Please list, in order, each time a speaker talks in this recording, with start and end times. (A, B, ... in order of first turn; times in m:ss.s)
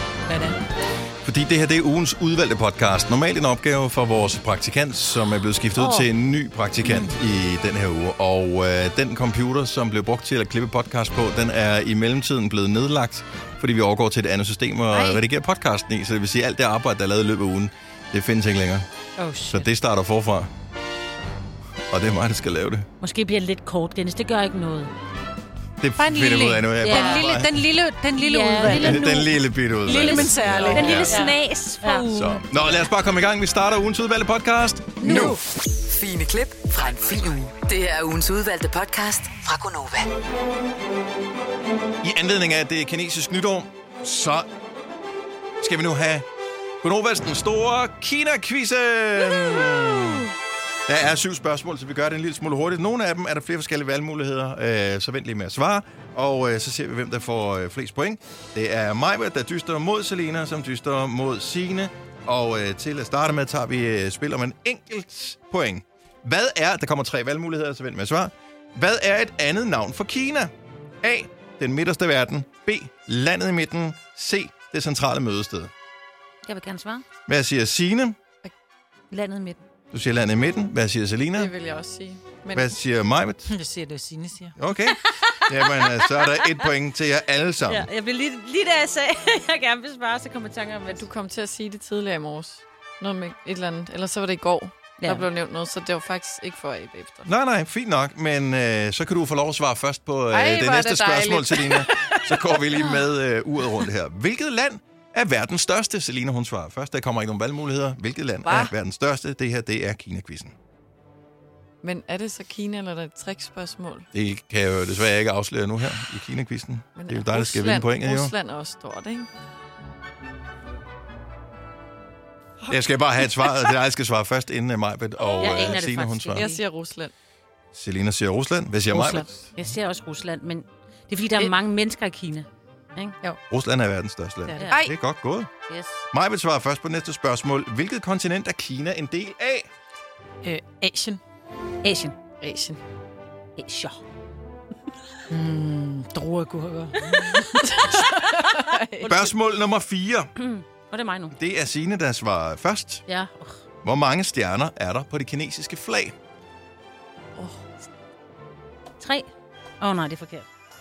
0:00.3-0:00.6 A
0:01.2-0:18.8 B
0:05.8-0:06.1 C
0:14.9-0:15.2 A
0:19.2-0:19.7 A
0:19.5-0:20.5 B
0:21.9-0:22.9 B
0:23.0-0:24.9 C
0:25.8-0:27.6 B
0:26.0-0:29.1 A
0:26.8-0:27.2 C
0:28.2-0:32.4 C
0:28.7-0:31.2 B
0:29.8-0:32.1 A
0:32.1-0:35.4 B
0:35.0-0:35.4 A
0:35.8-0:40.1 D
0:42.0-0:44.5 B
0:45.6-0:46.3 B
0:46.8-0:50.3 B
0:50.9-1:15.7 B
1:16.4-1:17.0 C
1:17.3-1:18.2 B
1:19.1-1:19.6 C
1:19.9-1:21.5 B
1:21.4-1:22.7 E
1:22.5-1:23.5 B
1:23.5-1:24.5 A
1:24.6-1:27.9 B
1:25.1-1:26.3 C
1:27.7-1:31.0 C
1:30.9-1:37.3 E
1:35.0-1:35.3 C
1:37.3-1:50.5 B
1:40.3-1:42.2 E
1:48.4-1:48.7 E
1:51.8-1:54.1 E
1:54.1-1:58.3 B
1:57.0-1:59.3 E
2:02.7-2:06.5 B
2:05.4-2:06.6 C
2:05.4-2:05.7 E
2:06.4-2:07.1 E
2:07.7-2:09.3 B
2:08.9-2:09.3 A
2:09.6-2:13.2 C
2:13.5-2:15.5 B
2:14.5-2:14.8 C
2:15.7-2:16.0 C
2:16.1-2:19.7 B
2:20.4-2:21.2 A
2:21.8-2:22.2 C
2:22.4-2:22.8 E
2:23.6-2:24.0 C
2:25.3-2:27.6 A
2:27.2-2:29.3 E
2:29.1-2:30.3 B
2:30.4-2:31.3 C
2:31.3-2:33.0 B
2:33.1-2:33.6 C
2:33.8-2:36.1 B
2:37.4-2:37.6 E
2:39.0-2:39.3 C
2:39.8-2:40.5 C